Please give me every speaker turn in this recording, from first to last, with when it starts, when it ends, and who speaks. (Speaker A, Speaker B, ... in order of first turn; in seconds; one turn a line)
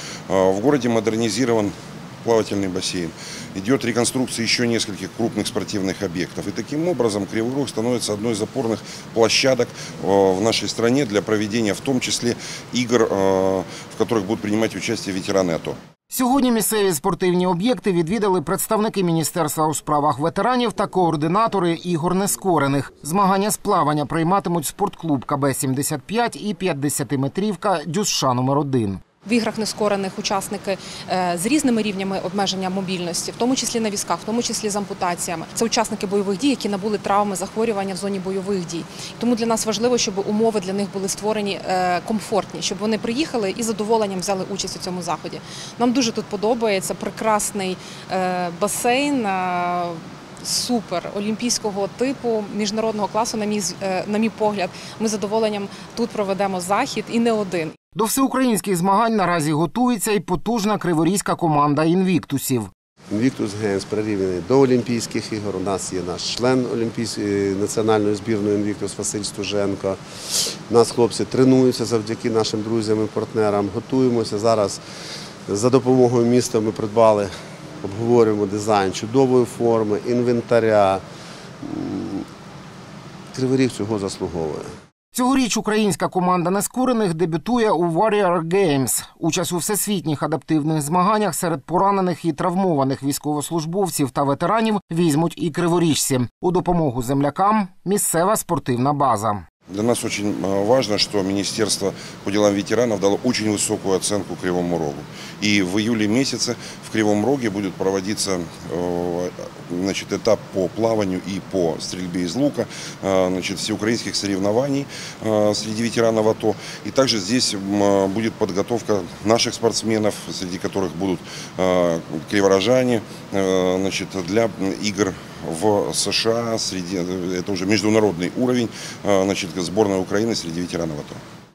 Speaker A: 0.3-15.8
Speaker B: 16.1-29.0
Speaker C: 29.2-57.8
Speaker B: 58.0-62.7
Speaker D: 63.1-70.0
Speaker D: 70.7-74.8
Speaker D: 75.5-77.3
Speaker D: 77.8-81.0
Speaker D: 81.6-82.3
Speaker D: 83.3-84.7
Speaker B: 85.1-99.5
Speaker A: 99.7-131.2